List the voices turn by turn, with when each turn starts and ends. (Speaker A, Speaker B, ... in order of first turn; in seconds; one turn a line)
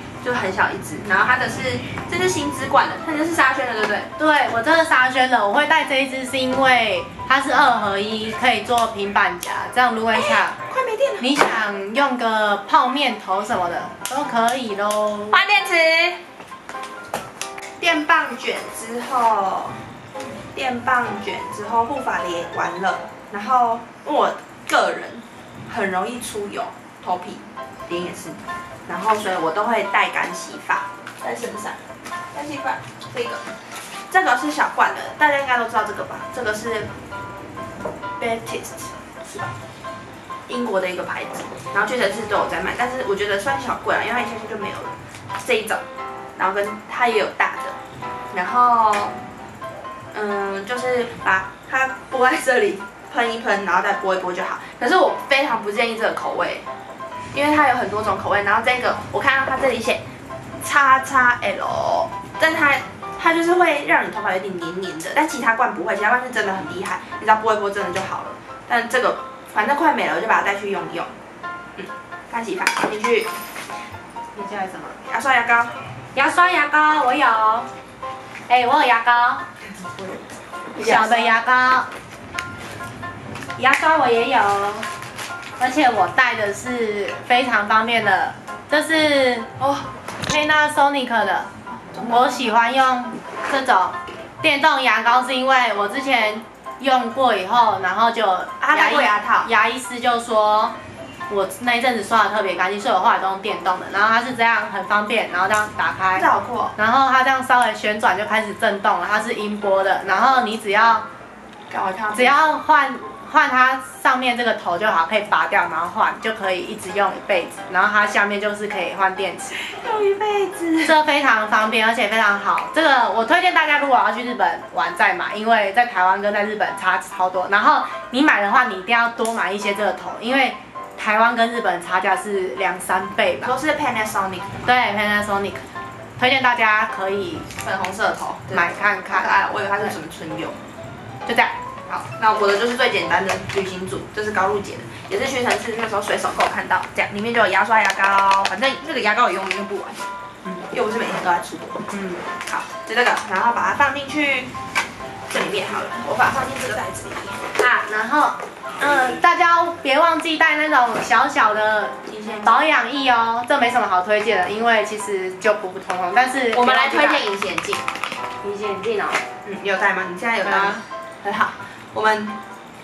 Speaker A: 0.2-4.1
Speaker B: 4.2-10.6
Speaker A: 10.7-11.3
Speaker B: 11.2-15.4
Speaker A: 15.3-16.2
Speaker A: 17.8-19.8
Speaker A: 20.6-31.8
Speaker A: 32.3-33.5
Speaker A: 34.1-36.9
Speaker A: 38.2-39.5
Speaker A: 40.5-45.8
Speaker A: 46.4-47.8
Speaker A: 48.3-49.1
Speaker A: 50.1-56.7
Speaker A: 57.3-60.0
Speaker A: 60.6-71.1
Speaker A: 71.8-73.3
Speaker B: 74.3-75.0
Speaker A: 75.1-75.7
Speaker B: 76.2-77.7
Speaker B: 78.5-79.4
Speaker A: 80.8-81.4
Speaker B: 80.8-81.9
Speaker B: 83.6-84.9
Speaker B: 85.6-89.5
Speaker A: 89.6-89.8
Speaker B: 90.3-91.5
Speaker A: 91.9-92.3
Speaker B: 92.0-100.8
Speaker A: 98.6-99.5
Speaker B: 101.3-111.1
Speaker A: 106.2-106.8
Speaker A: 111.7-112.5
Speaker B: 112.1-119.6
Speaker A: 119.6-121.0
Speaker B: 120.9-133.5
Speaker A: 133.4-134.6
Speaker B: 134.7-135.7
Speaker B: 136.2-137.5
Speaker A: 137.6-140.6
Speaker B: 138.5-139.9
Speaker B: 141.3-141.6
Speaker A: 141.9-150.0
Speaker A: 150.7-151.9
Speaker B: 151.9-152.2
Speaker A: 152.4-154.5
Speaker A: 155.3-157.5
Speaker B: 157.6-167.2
Speaker A: 162.1-162.6
Speaker A: 166.5-167.8
Speaker B: 168.4-169.2
Speaker A: 169.4-172.4
Speaker B: 170.4-170.8